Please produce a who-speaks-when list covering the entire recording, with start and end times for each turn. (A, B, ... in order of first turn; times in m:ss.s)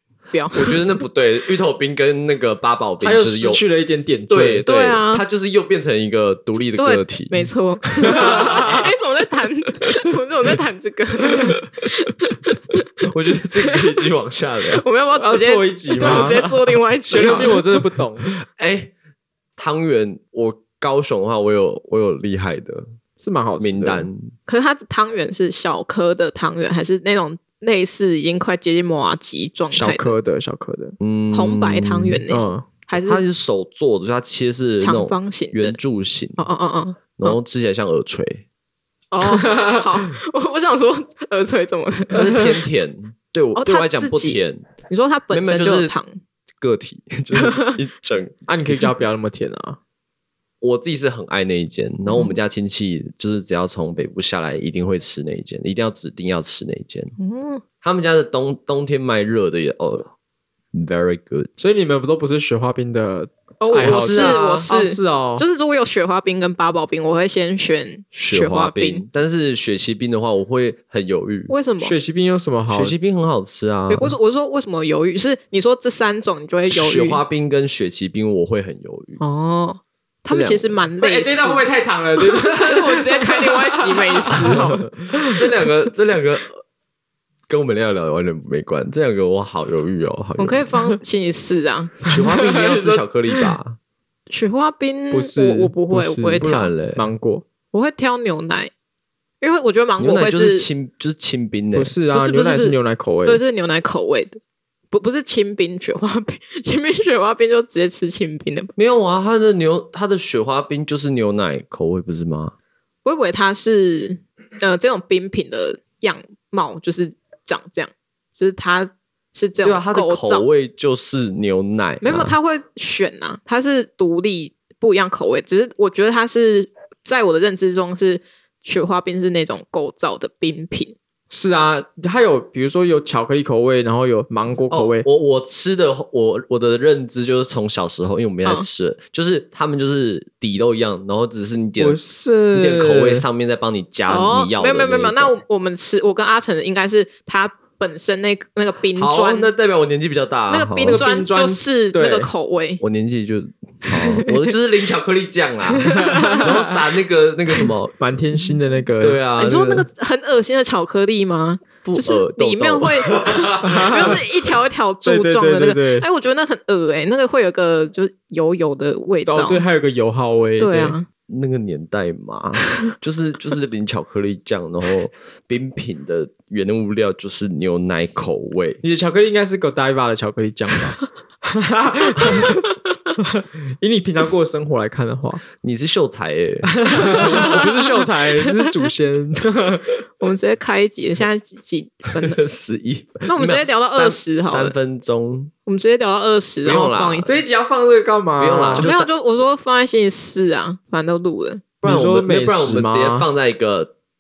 0:00.3-0:00.8 A
0:00.5-0:03.7 B
0:03.0-0:04.7 C
0:04.3-0:07.5 B
0:04.6-0:05.2 A
0:06.8-0:12.8 A
0:08.0-0:08.7 B
0:08.0-0:08.9 C
0:13.0-0:14.9 B
0:14.8-0:17.6 A
0:15.2-0:16.4 C
0:15.9-0:18.9 B
0:17.1-0:18.3 C
0:19.6-0:22.8 B
0:23.2-0:24.1 C
0:23.6-0:24.3 B
0:24.5-0:30.2 A
0:29.7-0:31.0 C
0:31.0-0:32.2 B
0:31.3-0:33.2 A
0:32.3-0:32.8 C
0:33.0-0:36.4 B
0:34.8-0:35.8 A
0:36.4-0:37.4 A
0:37.2-0:38.4 B
0:39.1-0:42.3 A
0:42.1-0:44.6 B
0:43.6-0:46.2 A
0:45.3-0:46.0 B
0:46.6-0:48.5 B
0:47.3-0:47.8 A
0:48.5-0:49.8 C
0:50.6-0:57.2 B
0:52.1-0:52.4 A
0:57.2-0:57.6 A
0:57.8-1:00.1 B
1:00.7-1:01.5 B
1:01.6-1:05.5 C
1:03.6-1:09.1 A
1:03.8-1:04.7 B
1:08.1-1:11.6 B
1:11.5-1:12.0 A
1:11.8-1:13.0 C
1:12.7-1:14.1 B
1:13.9-1:17.2 A
1:16.7-1:19.2 B
1:19.2-1:21.7 A
1:20.3-1:20.8 B
1:21.0-1:24.7 C
1:22.2-1:24.8 A
1:24.4-1:26.6 B
1:27.5-1:30.7 B
1:30.4-1:32.1 A
1:32.0-1:33.8 B
1:32.2-1:33.0 C
1:34.3-1:36.7 A
1:35.1-1:37.4 C
1:36.4-1:37.1 B
1:37.7-1:38.7 A
1:39.4-1:40.7 A
1:40.0-1:42.0 B
1:41.7-1:43.4 C
1:42.1-1:44.4 A
1:44.9-1:48.7 A
1:48.8-1:52.5 B
1:53.0-2:00.5 A
1:59.6-2:02.4 B
2:02.0-2:11.0 A
2:11.3-2:15.1 C
2:14.7-2:22.0 B
2:21.8-2:23.3 C
2:22.5-2:25.4 B
2:24.1-2:29.5 A
2:29.0-2:31.1 B
2:30.5-2:32.8 A
2:30.8-2:32.3 C
2:32.8-2:38.0 B
2:35.8-2:36.4 A
2:36.0-2:36.4 C
2:38.0-2:39.2 C
2:39.0-2:39.9 B
2:39.4-2:49.6 A
2:42.0-2:44.2 B
2:43.6-2:44.2 C
2:45.0-2:46.1 C
2:49.3-2:51.0 C
2:50.6-2:51.1 A
2:51.3-2:58.8 B
2:58.8-3:02.6 C
3:02.2-3:02.7 A
3:03.3-3:05.4 C
3:05.6-3:07.6 B
3:06.6-3:09.9 C
3:07.0-3:07.7 A
3:10.2-3:12.4 A
3:12.2-3:15.5 B
3:13.3-3:14.8 A
3:15.7-3:17.4 A
3:16.6-3:17.4 B
3:17.2-3:18.9 C
3:18.4-3:19.1 B
3:18.8-3:21.6 A
3:21.8-3:23.3 C
3:21.8-3:23.9 B